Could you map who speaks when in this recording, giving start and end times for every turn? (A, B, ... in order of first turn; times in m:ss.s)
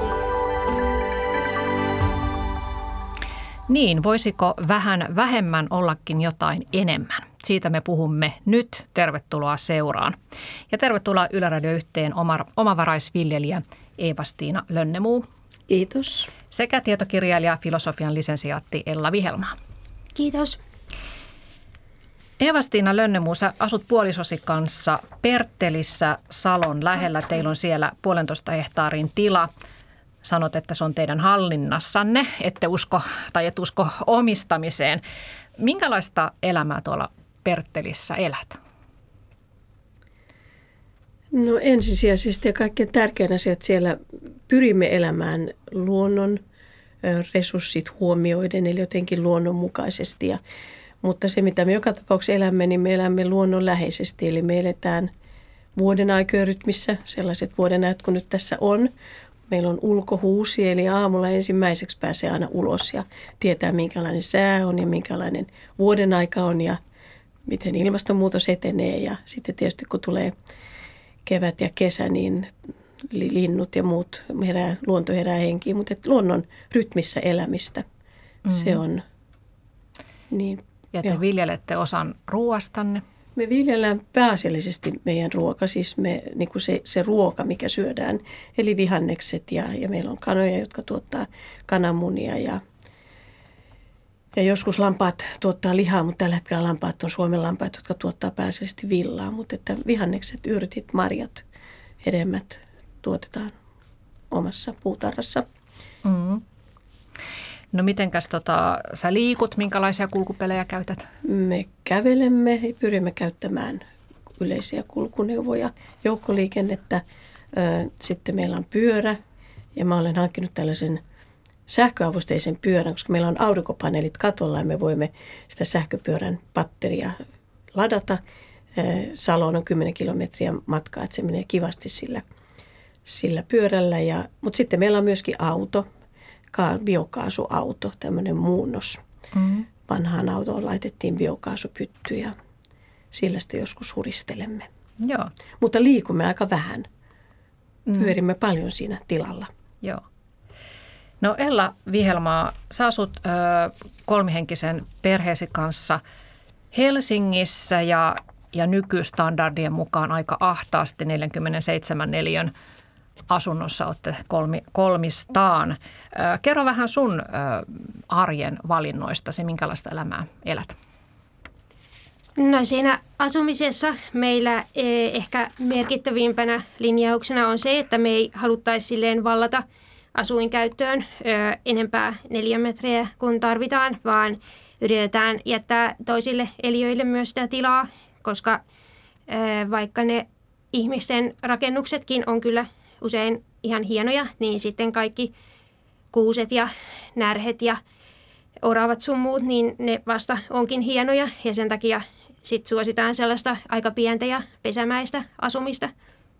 0:03.7-0:10.2 A
0:10.7-0:15.2 A
0:15.7-0:16.3 B
0:16.5-0:19.5 A
0:20.2-0:20.6 C
0:22.4-0:29.5 A
0:30.2-0:35.0 A
0:35.6-0:38.6 A
0:41.3-0:46.4 B
0:47.0-0:50.4 B
0:51.0-0:55.1 B
0:55.8-0:58.9 B
0:59.5-1:06.8 B
1:07.4-1:10.3 B
1:11.2-1:12.5 B
1:13.0-1:17.8 B
1:18.4-1:19.0 B
1:18.5-1:18.8 A
1:20.3-1:21.2 B
1:20.9-1:23.0 A
1:23.4-1:32.6 B
1:34.3-1:41.4 B
1:42.0-1:43.5 B
1:44.3-1:45.4 B
1:46.0-1:46.4 A
1:47.7-1:51.0 A
1:51.2-1:53.8 B
1:54.4-1:59.2 B
1:59.8-2:01.0 B
2:01.7-2:07.2 B
2:07.7-2:08.2 B
2:08.7-2:12.2 B
2:13.0-2:15.8 B
2:16.5-2:19.0 B
2:19.3-2:19.7 A
2:19.9-2:22.3 B
2:23.1-2:24.7 B
2:25.0-2:25.3 A
2:25.6-2:26.9 B
2:27.9-2:28.1 A
2:27.9-2:29.5 B
2:31.2-2:36.0 A
2:36.7-2:42.5 A
2:43.3-2:50.7 A
2:52.4-2:59.6 C
3:00.1-3:08.6 C
3:09.3-3:15.3 C
3:16.1-3:17.8 C
3:18.6-3:25.9 C